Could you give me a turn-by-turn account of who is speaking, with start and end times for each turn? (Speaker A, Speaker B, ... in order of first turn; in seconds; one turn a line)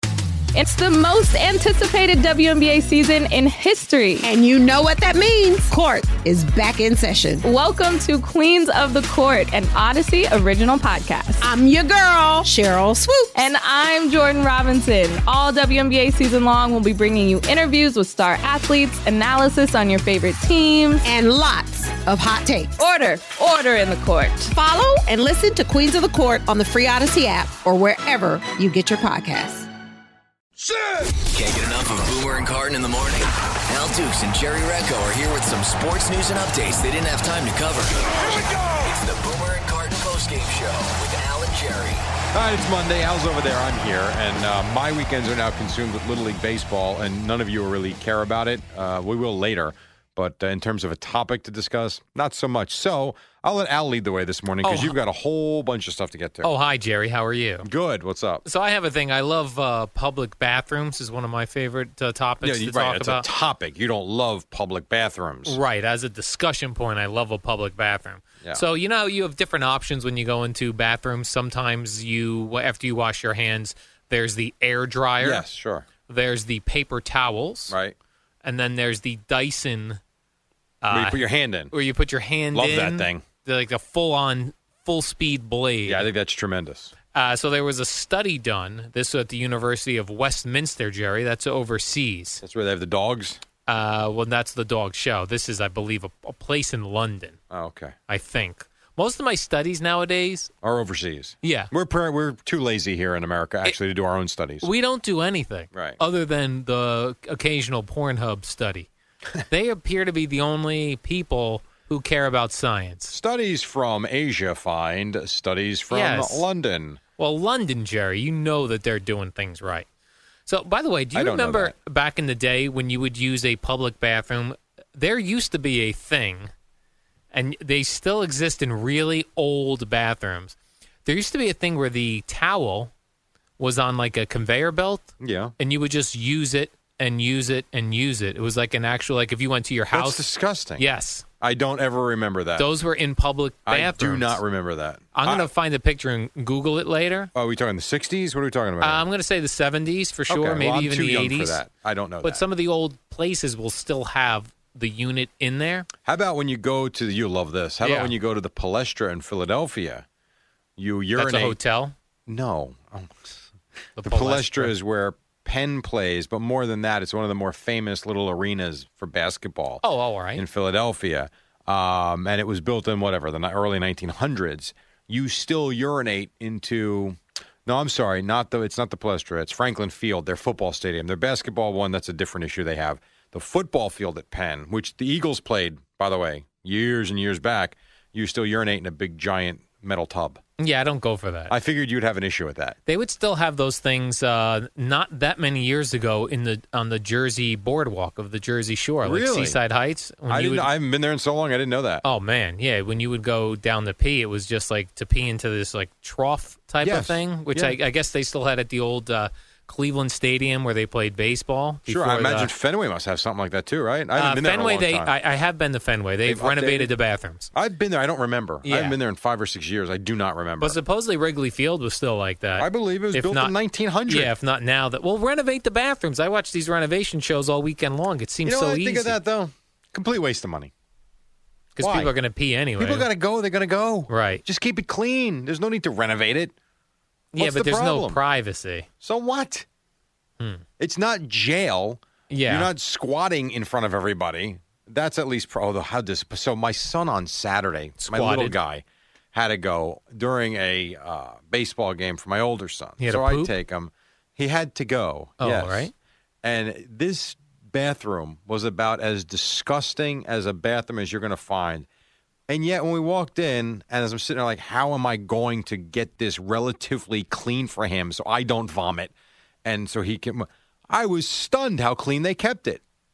Speaker A: 0.6-4.3
Speaker B: 4.2-7.5
Speaker A: 7.4-11.5
Speaker B: 11.4-13.5
Speaker A: 13.3-21.1
Speaker B: 21.1-22.8
Speaker A: 22.8-24.5
Speaker B: 24.5-29.7
Speaker C: 31.2-42.0
Speaker D: 42.3-56.5
Speaker E: 54.6-55.0
Speaker E: 56.4-57.7
Speaker D: 57.6-58.4
Speaker E: 58.5-63.3
Speaker D: 62.4-65.6
Speaker E: 65.5-75.4
Speaker D: 75.2-75.9
Speaker E: 76.1-77.8
Speaker D: 77.7-78.0
Speaker E: 78.4-80.0
Speaker E: 80.8-86.1
Speaker D: 80.9-81.7
Speaker D: 82.5-83.2
Speaker D: 85.9-86.9
Speaker E: 87.1-92.4
Speaker D: 92.4-93.4
Speaker E: 93.7-97.4
Speaker D: 97.5-98.0
Speaker E: 98.1-100.5
Speaker D: 100.6-104.7
Speaker E: 101.4-101.7
Speaker E: 104.6-108.9
Speaker D: 105.7-106.0
Speaker E: 109.5-113.2
Speaker D: 113.1-117.0
Speaker E: 115.9-116.5
Speaker E: 117.2-119.9
Speaker E: 120.5-126.5
Speaker D: 121.2-121.7
Speaker E: 127.3-130.6
Speaker E: 131.1-132.9
Speaker E: 133.6-140.2
Speaker D: 135.2-135.5
Speaker D: 139.9-140.8
Speaker E: 140.8-141.2
Speaker D: 141.4-142.7
Speaker E: 142.6-144.4
Speaker D: 143.7-145.5
Speaker E: 145.1-147.3
Speaker D: 147.3-149.0
Speaker E: 148.8-151.6
Speaker D: 150.3-152.4
Speaker E: 152.2-155.9
Speaker D: 156.1-160.1
Speaker E: 157.8-158.1
Speaker D: 160.8-161.6
Speaker E: 161.2-161.9
Speaker D: 162.3-163.3
Speaker E: 164.0-164.7
Speaker D: 164.0-169.8
Speaker E: 169.8-170.4
Speaker D: 170.4-190.4
Speaker E: 190.6-191.5
Speaker D: 191.5-192.8
Speaker E: 192.9-200.7
Speaker D: 199.0-199.6
Speaker D: 200.3-202.0
Speaker E: 202.0-212.5
Speaker D: 206.8-207.8
Speaker D: 211.9-215.1
Speaker E: 214.2-217.5
Speaker D: 216.3-216.9
Speaker D: 217.5-220.8
Speaker E: 218.7-219.0
Speaker E: 220.6-223.5
Speaker D: 222.6-224.3
Speaker E: 224.1-229.2
Speaker D: 228.4-230.7
Speaker E: 231.8-233.1
Speaker D: 231.8-232.1
Speaker D: 232.8-236.5
Speaker E: 234.1-234.4
Speaker E: 237.3-238.9
Speaker D: 237.4-238.2
Speaker D: 239.0-239.7
Speaker D: 240.8-255.9
Speaker E: 242.3-242.7
Speaker E: 248.0-248.6
Speaker E: 253.0-253.5
Speaker E: 255.4-255.9
Speaker D: 256.4-261.9
Speaker D: 262.5-269.1
Speaker D: 269.6-272.8